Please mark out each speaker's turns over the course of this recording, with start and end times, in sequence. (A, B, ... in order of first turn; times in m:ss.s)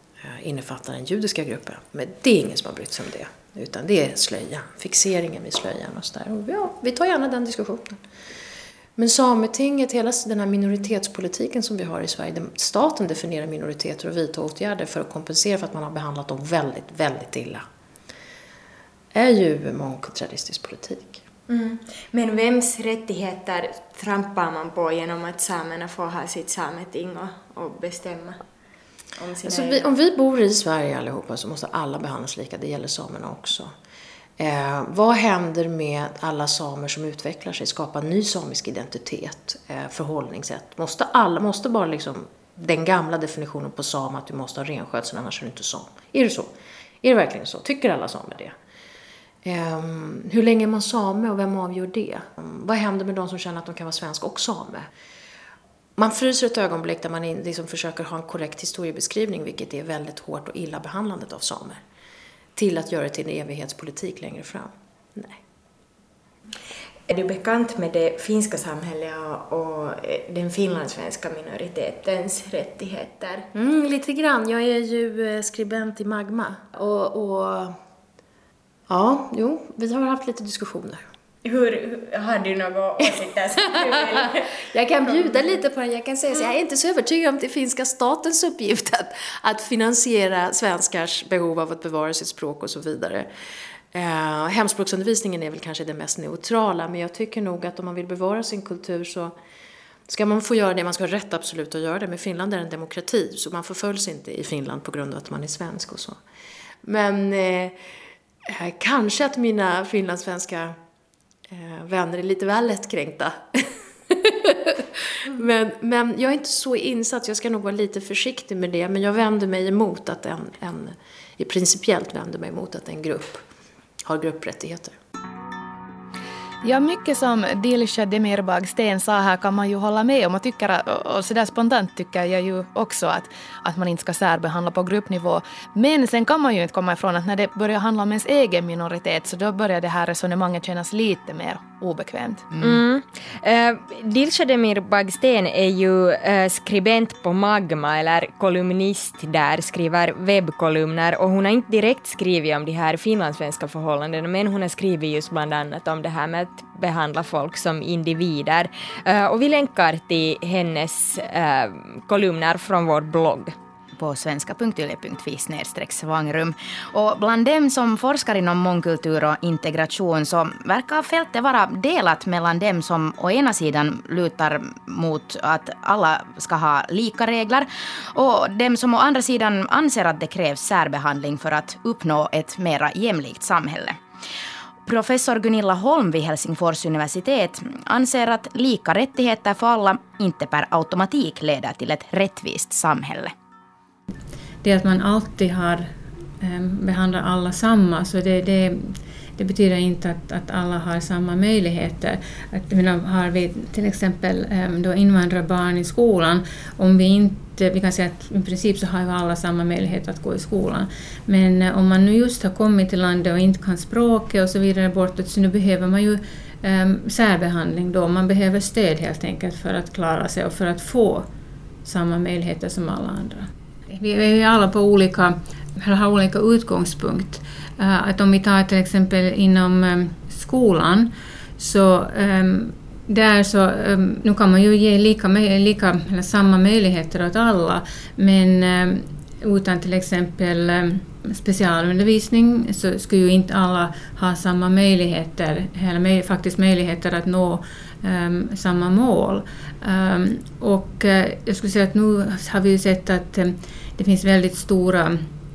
0:00.2-0:08.0 A
0:09.0-0:17.6 A
0:19.1-0:21.2 A
0:21.5-0:28.4 B
0:29.2-0:29.9 B
0:29.4-0:33.7 A
0:34.4-0:46.5 A
0:47.0-0:48.5 A
0:49.4-0:54.9 A
0:56.0-1:01.8 A
1:02.6-1:05.4 A
1:07.1-1:13.5 B
1:13.5-1:17.7 A
1:18.9-1:21.0 A
1:21.4-1:24.5 B
1:23.5-1:24.2 A
1:24.7-1:33.3 A
1:25.1-1:25.4 B
1:33.9-1:39.4 A
1:40.1-1:46.2 A
1:46.8-1:47.8 A
1:48.5-1:50.8 A
1:51.5-1:53.4 A
1:54.1-2:03.4 A
2:04.0-2:05.0 A
2:06.6-2:22.5 C
2:22.6-2:43.5 B
2:44.0-3:04.0 D
3:04.8-3:13.3 D
3:14.6-3:41.3 E
3:41.8-4:15.3 E